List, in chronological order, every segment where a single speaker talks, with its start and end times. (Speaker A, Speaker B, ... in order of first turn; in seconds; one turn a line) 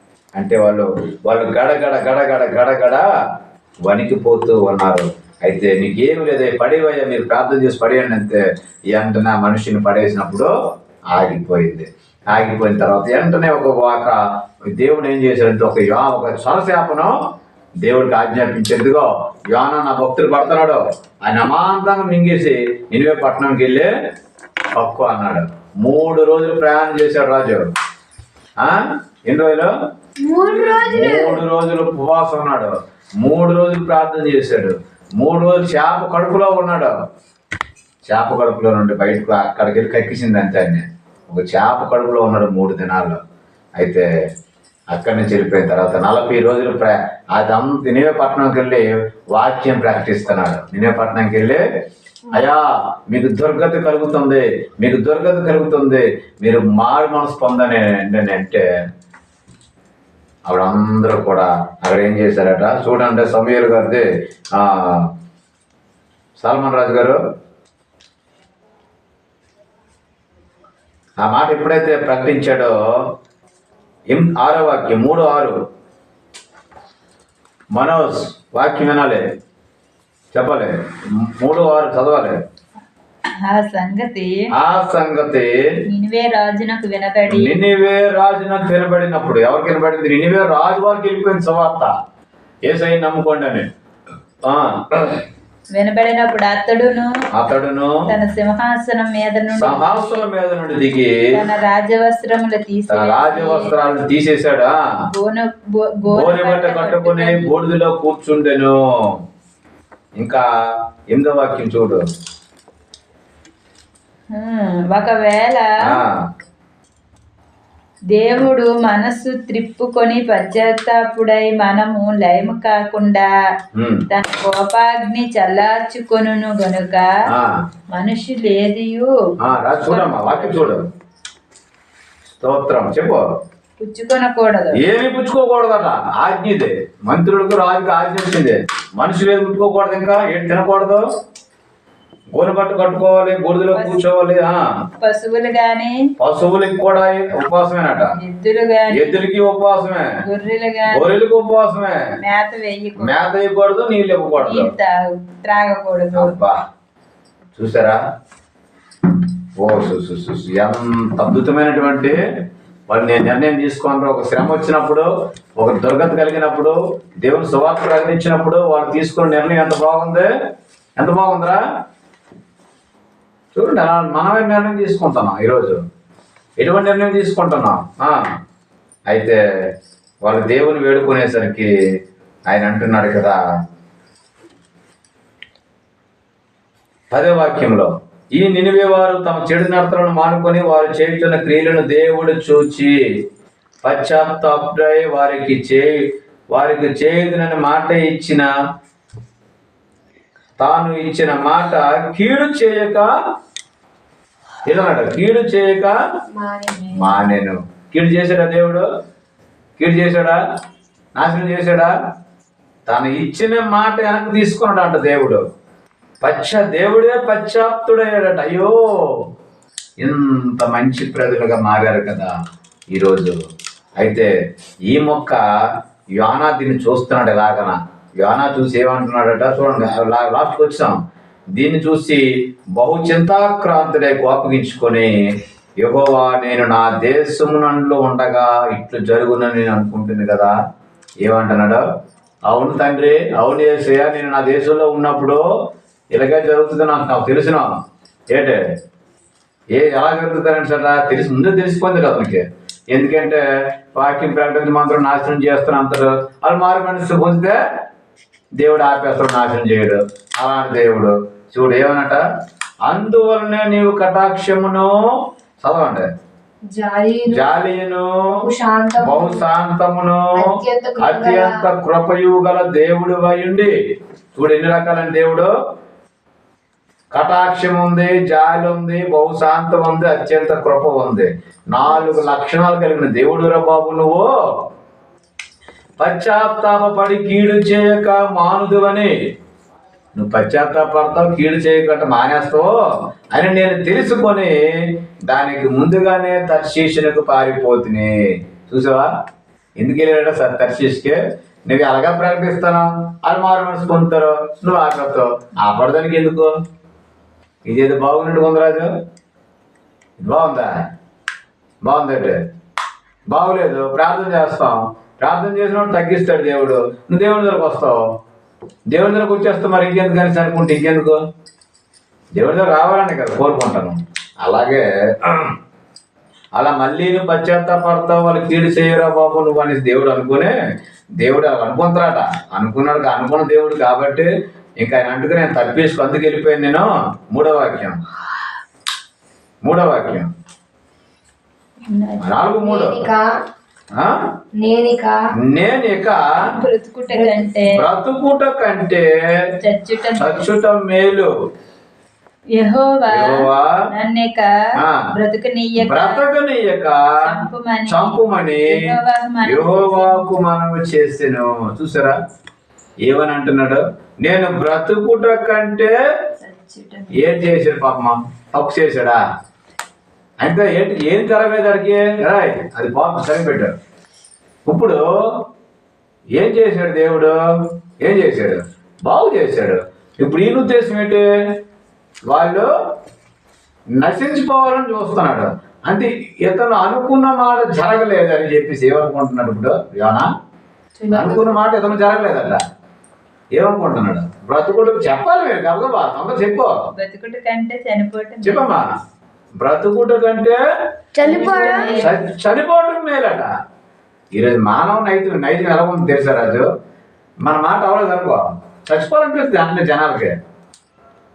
Speaker A: 0.3-3.0
Speaker A: 3.9-8.4
Speaker A: 8.9-10.5
Speaker A: 11.1-14.2
Speaker A: 14.7-17.1
Speaker A: 17.8-23.9
Speaker A: 24.7-27.6
Speaker A: 28.6-29.7
Speaker B: 30.2-31.4
Speaker A: 30.7-36.9
Speaker A: 38.0-43.2
Speaker A: 43.8-44.0
Speaker A: 44.9-51.6
Speaker A: 52.3-58.6
Speaker A: 60.5-65.1
Speaker A: 66.4-67.2
Speaker A: 71.2-72.7
Speaker A: 74.1-75.5
Speaker A: 77.7-79.2
Speaker A: 80.3-82.4
Speaker C: 83.4-84.4
Speaker A: 84.5-85.5
Speaker C: 85.9-87.5
Speaker A: 87.3-91.9
Speaker A: 92.6-93.7
Speaker A: 94.5-95.2
Speaker C: 95.7-97.2
Speaker A: 97.3-98.0
Speaker C: 98.0-100.2
Speaker A: 99.5-101.1
Speaker C: 101.3-103.8
Speaker A: 102.9-104.8
Speaker C: 105.1-107.5
Speaker A: 106.1-108.8
Speaker A: 110.2-110.4
Speaker A: 111.1-112.0
Speaker C: 114.3-115.7
Speaker A: 115.8-116.2
Speaker C: 118.1-123.3
Speaker A: 123.7-124.1
Speaker C: 124.1-127.1
Speaker A: 127.3-127.5
Speaker C: 127.9-130.8
Speaker A: 129.4-130.8
Speaker A: 132.3-133.2
Speaker C: 133.8-134.8
Speaker A: 134.8-141.0
Speaker A: 142.3-144.6
Speaker C: 143.7-144.0
Speaker C: 145.0-146.0
Speaker A: 146.2-148.2
Speaker C: 148.1-149.2
Speaker A: 148.9-150.1
Speaker C: 150.2-151.2
Speaker A: 150.9-152.0
Speaker C: 152.2-153.2
Speaker A: 153.0-154.7
Speaker C: 154.4-156.3
Speaker A: 156.1-156.6
Speaker A: 157.5-158.0
Speaker A: 159.6-162.2
Speaker A: 162.9-165.1
Speaker A: 165.6-170.3
Speaker A: 171.0-171.6
Speaker A: 173.5-175.8
Speaker A: 176.6-178.2
Speaker A: 179.1-179.4
Speaker A: 180.2-181.7
Speaker A: 182.5-183.3
Speaker A: 187.1-192.9
Speaker A: 193.8-196.0
Speaker A: 196.5-198.5
Speaker A: 200.6-203.1
Speaker A: 204.7-205.9
Speaker B: 206.3-207.2
Speaker A: 206.9-208.8
Speaker A: 209.8-210.4
Speaker A: 211.2-211.9
Speaker A: 212.9-215.4
Speaker A: 216.2-219.3
Speaker A: 220.0-222.3
Speaker A: 222.9-223.3
Speaker A: 224.0-224.3
Speaker A: 224.8-225.4
Speaker A: 226.2-231.0
Speaker A: 231.6-232.2
Speaker A: 232.8-235.1
Speaker A: 235.8-240.5
Speaker A: 241.2-241.8
Speaker A: 242.5-245.4
Speaker A: 246.1-247.7
Speaker A: 248.3-248.6
Speaker A: 249.7-257.6
Speaker A: 258.6-262.2
Speaker A: 262.9-264.9
Speaker A: 265.6-266.1
Speaker B: 266.7-267.5
Speaker A: 267.3-268.2
Speaker B: 268.4-269.4
Speaker A: 269.0-270.4
Speaker B: 270.3-271.5
Speaker A: 271.0-273.7
Speaker A: 274.3-275.5
Speaker A: 277.1-284.3
Speaker A: 286.0-289.1
Speaker A: 290.1-292.7
Speaker A: 293.3-298.1
Speaker A: 298.6-299.1
Speaker A: 299.8-306.5
Speaker A: 307.6-308.9
Speaker A: 310.2-310.7
Speaker A: 311.8-312.4
Speaker A: 313.3-318.0
Speaker A: 318.9-321.2
Speaker A: 322.4-325.5
Speaker A: 326.5-330.5
Speaker A: 331.2-334.3
Speaker A: 334.8-338.0
Speaker A: 339.6-340.3
Speaker C: 341.9-342.2
Speaker A: 342.2-343.1
Speaker B: 342.6-343.2
Speaker B: 344.6-345.2
Speaker A: 345.5-346.3
Speaker C: 346.4-347.7
Speaker A: 347.7-349.1
Speaker C: 349.6-350.4
Speaker A: 350.1-351.3
Speaker C: 352.5-354.5
Speaker A: 353.1-353.7
Speaker A: 354.8-355.1
Speaker C: 355.1-356.2
Speaker A: 355.8-357.0
Speaker C: 357.2-360.2
Speaker A: 357.9-358.8
Speaker A: 359.4-362.1
Speaker A: 363.1-365.9
Speaker C: 366.4-367.4
Speaker A: 367.1-369.2
Speaker A: 370.4-373.7
Speaker A: 374.7-375.0
Speaker A: 376.4-381.2
Speaker A: 382.3-382.7
Speaker A: 384.0-390.3
Speaker B: 391.0-391.6
Speaker A: 391.1-392.6
Speaker A: 393.5-396.7
Speaker C: 396.9-398.8
Speaker A: 398.4-398.9
Speaker A: 399.6-400.6
Speaker B: 401.1-402.1
Speaker C: 401.2-402.1
Speaker A: 401.9-403.5
Speaker A: 404.3-406.6
Speaker A: 407.4-410.3